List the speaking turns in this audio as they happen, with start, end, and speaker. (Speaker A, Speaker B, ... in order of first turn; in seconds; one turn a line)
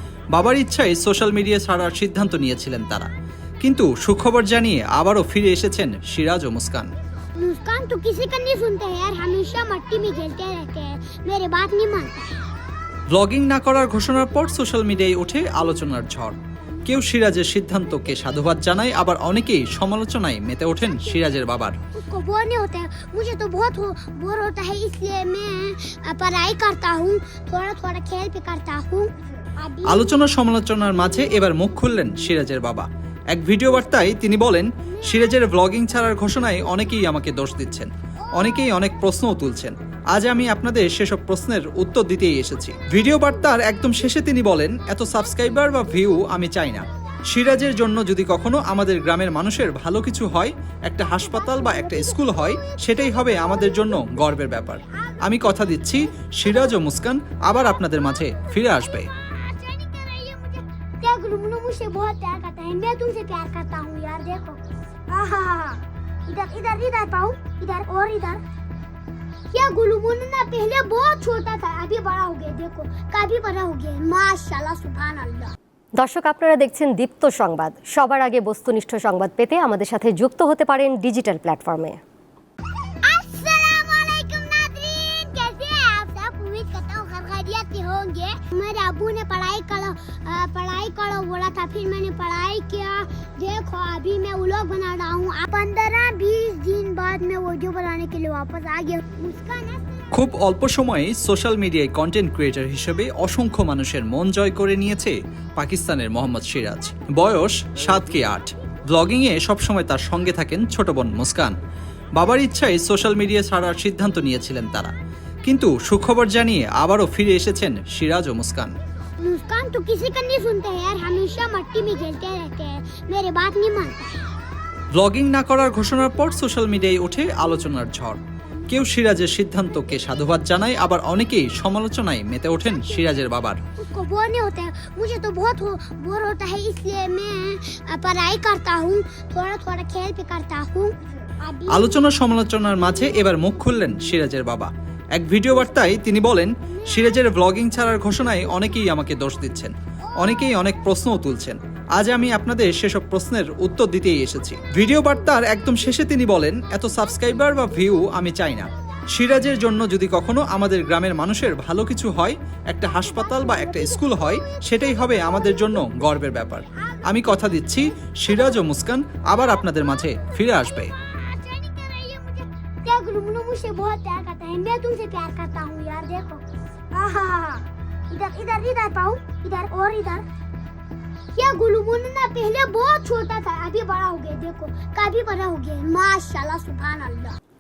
Speaker A: 0.3-3.1
Speaker A: 3.6-6.9
Speaker B: 7.4-12.4
Speaker A: 13.1-21.8
Speaker B: 20.7-30.2
Speaker A: 29.9-59.1
Speaker B: 33.7-37.0
Speaker B: 38.2-38.8
Speaker B: 43.0-44.1
Speaker B: 45.0-46.3
Speaker B: 51.0-56.9
Speaker B: 57.8-64.6
Speaker B: 65.1-68.4
Speaker B: 69.5-75.5
Speaker C: 76.0-82.0
Speaker B: 83.0-100.1
Speaker A: 100.1-111.5
Speaker A: 112.2-114.9
Speaker A: 115.5-118.8
Speaker B: 119.2-124.2
Speaker A: 124.9-133.6
Speaker B: 132.5-133.2
Speaker B: 133.8-142.1
Speaker A: 141.7-170.9
Speaker B: 143.0-143.6
Speaker B: 145.6-149.0
Speaker B: 150.0-150.6
Speaker B: 156.7-158.1
Speaker B: 162.9-168.7
Speaker B: 169.3-176.4
Speaker B: 176.9-180.2
Speaker B: 181.4-187.4